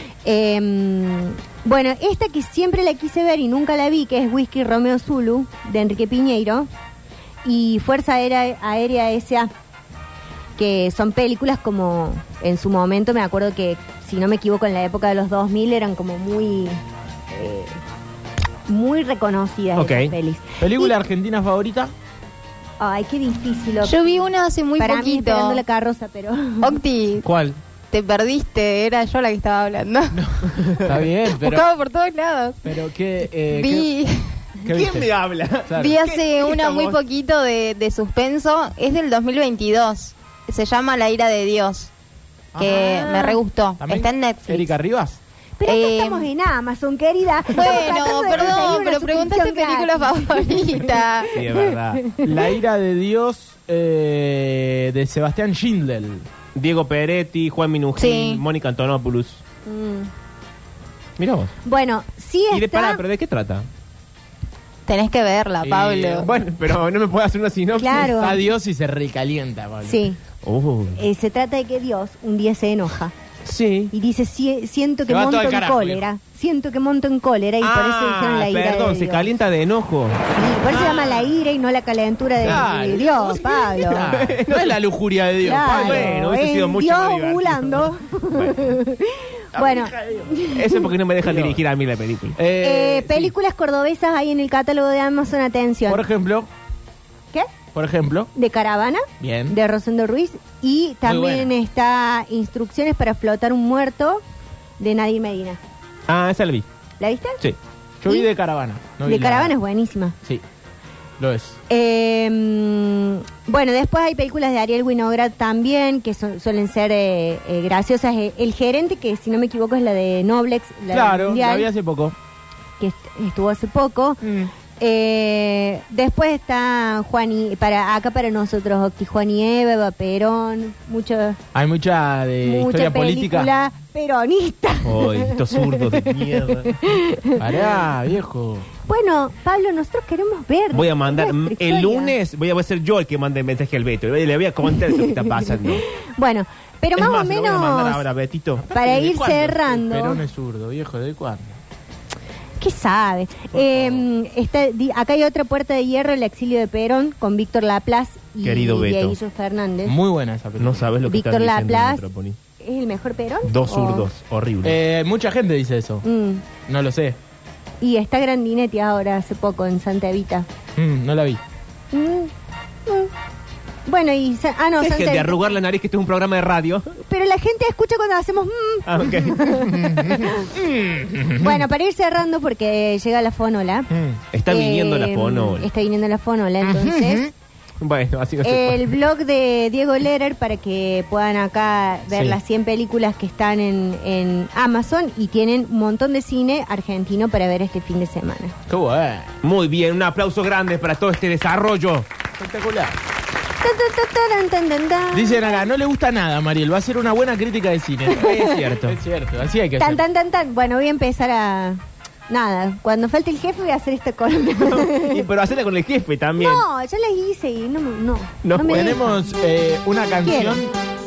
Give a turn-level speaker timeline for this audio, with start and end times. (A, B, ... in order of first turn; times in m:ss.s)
0:00.2-0:06.7 A
0:07.4-0:09.5 A
0:10.6-0:16.8 A
0:17.3-0:17.8 A
0:18.7-0:21.0 A
0:19.8-0:20.1 B
0:20.6-0:21.9 C
0:22.8-0:24.3 A
0:23.8-0:25.6 D
0:24.8-0:26.8 A
0:26.6-0:27.3 D
0:27.2-0:27.6 B
0:27.9-0:30.2 D
0:30.1-0:31.7 C
0:31.2-0:32.6 D
0:32.6-0:33.9 C
0:33.5-0:34.4 D
0:34.6-0:35.1 C
0:34.6-0:37.0 B
0:35.7-0:36.0 C
0:35.8-0:41.9 D
0:42.5-0:45.2 C
0:42.6-0:44.7 D
0:45.6-0:52.3 A
0:45.6-0:46.3 D
0:47.5-0:51.3 D
0:48.3-0:48.6 B
0:51.3-0:52.0 B
0:52.2-0:56.3 C
0:56.6-0:59.4 B
0:58.0-0:58.4 D
0:59.7-1:00.1 A
1:01.2-1:01.5 B
1:01.6-1:03.0 A
1:02.5-1:03.7 B
1:04.9-1:06.4 D
1:05.6-1:06.3 C
1:06.2-1:08.3 B
1:07.8-1:08.4 A
1:08.0-1:10.1 C
1:09.8-1:10.2 A
1:10.4-1:11.0 B
1:11.0-1:13.1 A
1:13.4-1:13.9 B
1:13.9-1:19.4 A
1:15.1-1:16.0 C
1:17.6-1:21.2 B
1:20.3-1:24.1 A
1:22.4-1:26.1 C
1:23.9-1:24.8 B
1:25.4-1:30.9 A
1:25.6-1:28.5 B
1:29.6-1:30.3 C
1:30.5-1:32.4 B
1:31.2-1:31.6 C
1:32.4-1:33.3 C
1:32.6-1:36.1 A
1:35.9-1:36.5 C
1:37.7-1:38.3 C
1:38.3-1:44.2 A
1:39.2-1:39.6 C
1:41.0-1:41.5 C
1:44.8-1:45.6 A
1:46.1-1:46.7 B
1:47.0-1:47.4 A
1:48.0-1:49.6 C
1:49.0-1:50.2 A
1:51.2-1:51.6 C
1:51.7-2:01.7 A
2:00.9-2:02.2 C
2:02.8-2:04.2 A
2:04.2-2:04.5 C
2:04.8-2:11.4 A
2:11.5-2:13.5 C
2:12.4-2:17.4 A
2:14.8-2:16.8 B
2:17.4-2:18.7 C
2:18.9-2:22.2 A
2:20.7-2:25.8 B
2:24.7-2:25.1 A
2:25.7-2:28.0 A
2:27.0-2:28.7 B
2:28.6-2:31.6 C
2:28.7-2:30.2 A
2:32.6-2:40.0 A
2:33.7-2:34.0 C
2:38.4-2:39.2 B
2:39.9-2:40.9 C
2:40.6-2:42.4 B
2:41.0-2:42.0 A
2:42.6-2:44.1 A
2:43.4-2:44.8 B
2:44.6-2:46.0 C
2:46.0-2:46.4 A
2:46.7-2:47.2 C
2:47.8-2:50.5 A
2:50.8-2:51.4 C
2:51.9-2:52.3 A
2:53.9-2:55.4 A
2:54.8-2:56.9 B
2:57.0-3:00.3 A
2:58.9-3:00.3 B
2:59.9-3:01.6 C
3:01.4-3:03.9 A
3:03.9-3:04.2 C
3:04.3-3:05.7 B
3:04.5-3:07.3 A
3:06.6-3:07.3 C
3:07.8-3:09.0 B
3:08.4-3:18.5 A
3:12.1-3:12.4 C
3:18.7-3:19.3 C
3:19.4-3:22.1 B
3:22.4-3:23.0 C
3:23.6-3:25.6 A
3:25.1-3:30.0 C
3:28.1-3:28.6 A
3:28.1-3:29.0 B
3:29.8-3:35.2 A
3:34.6-3:36.6 B
3:36.4-3:39.3 A
3:38.4-3:39.0 B
3:38.7-3:40.7 C
3:40.2-3:40.6 A